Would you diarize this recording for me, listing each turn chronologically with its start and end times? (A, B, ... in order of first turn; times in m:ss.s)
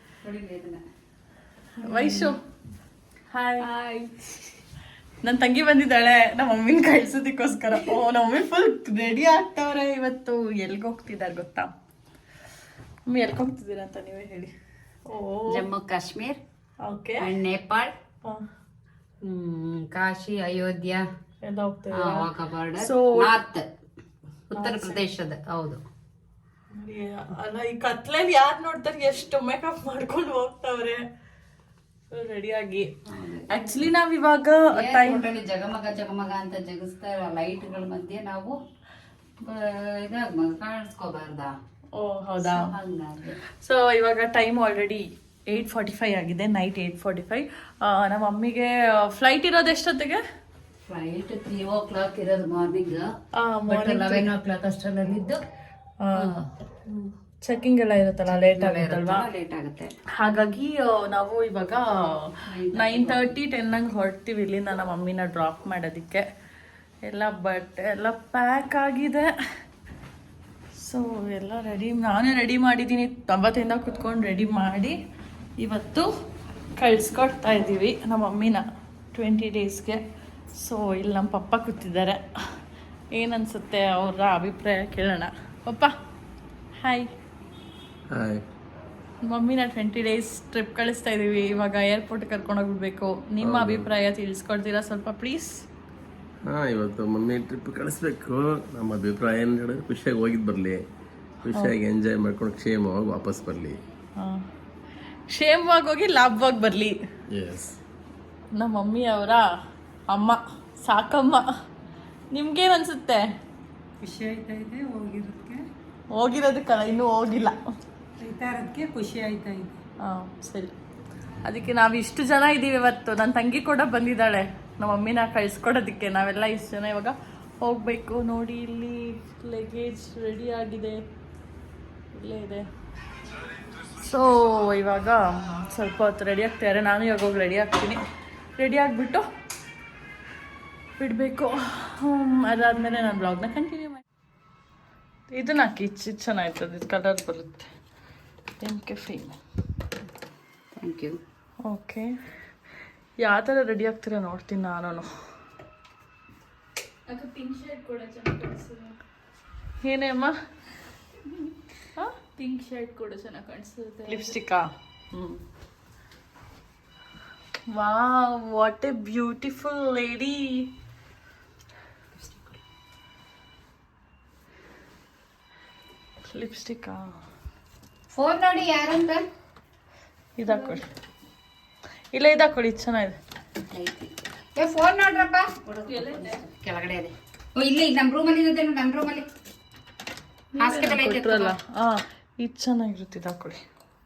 0:00.2-0:00.8 A
0:01.8-0:02.4 B
0:03.3-0:03.7 B
0:03.6-0:04.5 C
0:05.2-0:11.7 B
0:13.1-0:14.5 B
0:15.1-0:15.6 B
0:15.5-0:16.4 A
0:16.8-0:17.2 B
0:17.2-0:17.9 A
0:19.2-0:21.0 A
0:21.4-0:22.2 B
0:22.0-0:23.7 A
0:22.8-0:23.3 B
0:24.5-0:25.8 A
0:24.5-0:25.0 B
0:26.7-0:31.0 B
0:32.1-0:32.9 B
0:33.1-0:33.5 A
0:33.5-0:35.2 B
0:34.7-0:38.6 A
0:39.4-0:41.5 A
0:41.9-0:42.7 B
0:42.4-0:43.4 A
0:43.6-0:50.2 B
0:50.8-0:53.1 A
0:53.3-0:54.3 B
0:53.7-0:55.4 A
0:56.2-0:56.4 A
0:56.9-0:59.2 B
0:58.3-0:59.9 A
1:00.2-1:01.8 B
1:02.5-1:03.3 A
1:02.7-1:06.2 B
1:07.0-1:09.3 B
1:10.8-1:14.9 B
1:15.6-1:16.1 B
1:16.8-1:20.0 B
1:20.5-1:22.2 B
1:23.1-1:25.9 B
1:26.8-1:27.1 B
1:28.1-1:28.4 D
1:29.2-1:35.5 B
1:33.4-1:33.9 D
1:36.4-1:40.8 D
1:41.4-1:43.8 D
1:44.2-1:44.4 B
1:45.3-1:47.0 B
1:47.3-1:47.8 D
1:48.5-1:49.4 B
1:50.1-1:51.5 B
1:52.3-1:53.2 B
1:54.0-1:55.6 E
1:56.1-1:57.6 B
1:58.2-1:59.7 E
2:00.0-2:00.7 B
2:01.4-2:11.0 B
2:12.1-2:12.7 B
2:14.0-2:18.0 B
2:18.6-2:19.2 B
2:21.0-2:24.0 B
2:25.3-2:27.7 B
2:28.6-2:29.4 B
2:30.8-2:31.2 A
2:31.6-2:32.1 B
2:33.2-2:35.1 B
2:37.1-2:39.0 C
2:39.8-2:40.3 B
2:42.4-2:44.3 C
2:44.1-2:45.4 B
2:47.7-2:50.7 B
2:56.3-2:57.1 B
2:58.1-2:59.2 A
3:00.4-3:00.8 B
3:02.1-3:03.2 B
3:03.7-3:09.3 A
3:05.9-3:06.4 C
3:10.5-3:13.6 B
3:10.6-3:11.5 A